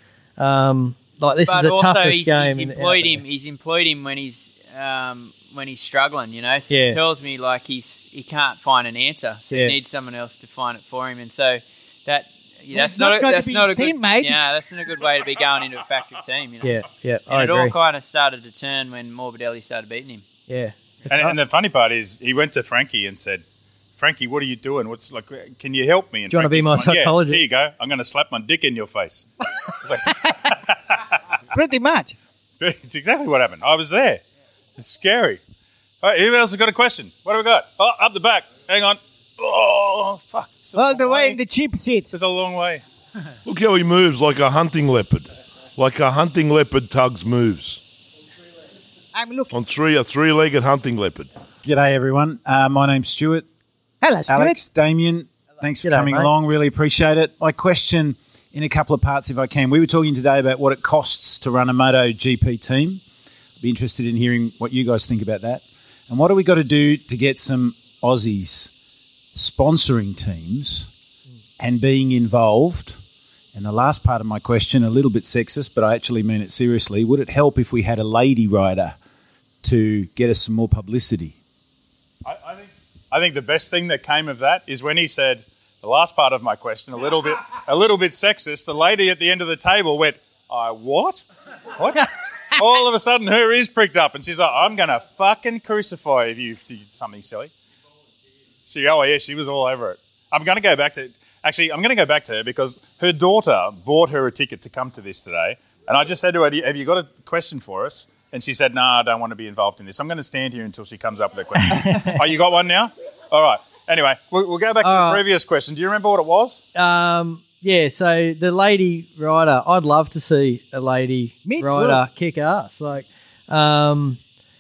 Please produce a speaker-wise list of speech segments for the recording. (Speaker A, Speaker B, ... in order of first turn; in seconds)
Speaker A: 0.4-3.2, 6.7-7.0, 16.6-17.7, 20.5-21.4, 26.3-27.4, 55.8-56.3, 111.7-112.2, 114.8-115.2, 116.7-124.2
Speaker B: 1.4-20.2
Speaker C: 12.7-14.4, 31.5-32.1, 40.8-42.1, 49.1-49.5, 54.0-54.6, 121.4-122.0
Speaker D: 21.1-23.4, 24.0-31.0, 32.6-34.2, 34.8-35.4, 36.0-41.4, 42.1-42.8, 82.2-91.2, 91.8-97.5, 98.7-116.6
Speaker E: 43.5-47.8, 49.5-51.3
Speaker F: 51.6-53.5, 54.3-63.0, 63.6-68.7, 69.3-70.9, 71.6-73.0, 73.5-79.0, 79.6-81.4